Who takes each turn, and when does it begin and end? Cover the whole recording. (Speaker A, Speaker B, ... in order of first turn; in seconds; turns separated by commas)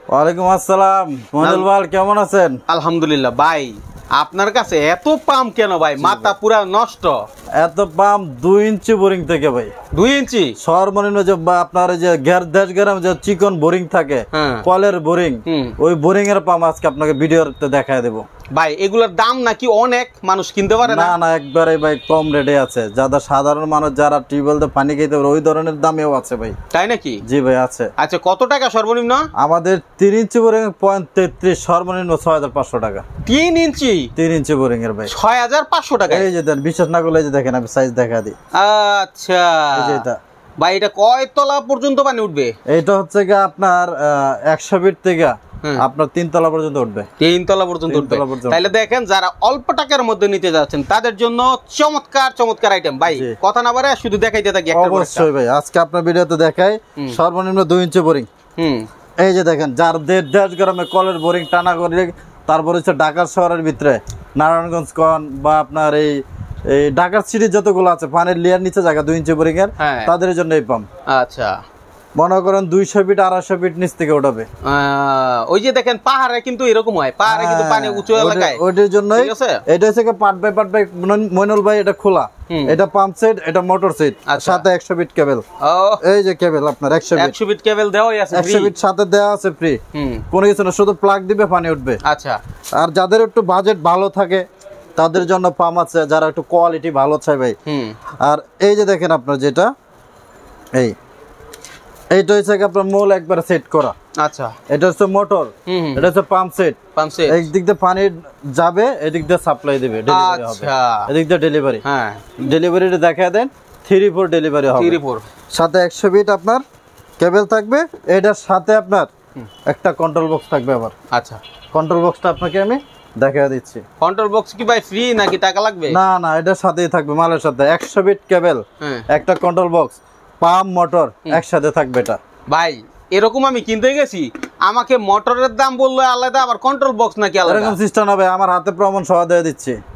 Speaker A: 0.1-2.6, Speaker B: 1.4-1.7, Speaker B: 2.7-7.2, Speaker A: 6.0-6.3, Speaker A: 7.6-9.7, Speaker B: 9.9-10.6, Speaker A: 10.6-18.2, Speaker B: 14.3-14.6, Speaker B: 15.5-15.7, Speaker B: 18.5-21.1, Speaker A: 20.8-26.6, Speaker B: 26.7-27.2, Speaker A: 27.2-27.9, Speaker B: 28.0-29.3, Speaker A: 29.4-33.0, Speaker B: 33.2-34.1, Speaker A: 34.1-35.1, Speaker B: 35.1-36.3, Speaker A: 36.1-38.3, Speaker B: 38.5-40.0, Speaker A: 39.7-40.2, Speaker B: 40.6-42.5, Speaker A: 42.7-47.1, Speaker B: 47.2-55.3, Speaker A: 47.9-48.6, Speaker A: 53.0-53.3, Speaker A: 54.7-58.3, Speaker B: 58.6-58.9, Speaker A: 59.2-70.9, Speaker B: 69.8-70.1, Speaker B: 71.1-71.6, Speaker A: 72.2-74.5, Speaker B: 74.6-78.6, Speaker A: 77.3-85.4, Speaker B: 79.1-79.6, Speaker B: 82.5-82.8, Speaker B: 84.3-84.7, Speaker B: 85.6-86.0, Speaker A: 86.0-87.3, Speaker B: 87.1-88.7, Speaker A: 88.3-89.8, Speaker B: 89.9-90.2, Speaker A: 90.3-92.0, Speaker B: 92.0-92.4, Speaker A: 92.8-94.4, Speaker A: 95.0-97.5, Speaker B: 97.7-98.0, Speaker A: 98.2-99.7, Speaker A: 102.1-103.9, Speaker B: 104.2-104.5, Speaker A: 104.7-111.8, Speaker B: 105.7-106.1, Speaker B: 107.0-107.4, Speaker B: 110.1-111.1, Speaker B: 111.8-112.2, Speaker A: 112.4-115.0, Speaker B: 114.8-115.2, Speaker A: 115.5-116.6, Speaker A: 117.2-119.1, Speaker A: 119.7-120.9, Speaker B: 121.1-121.4, Speaker A: 121.7-123.8, Speaker B: 124.0-126.0, Speaker A: 125.9-132.2, Speaker B: 128.8-129.1, Speaker B: 132.5-137.8, Speaker A: 137.4-139.8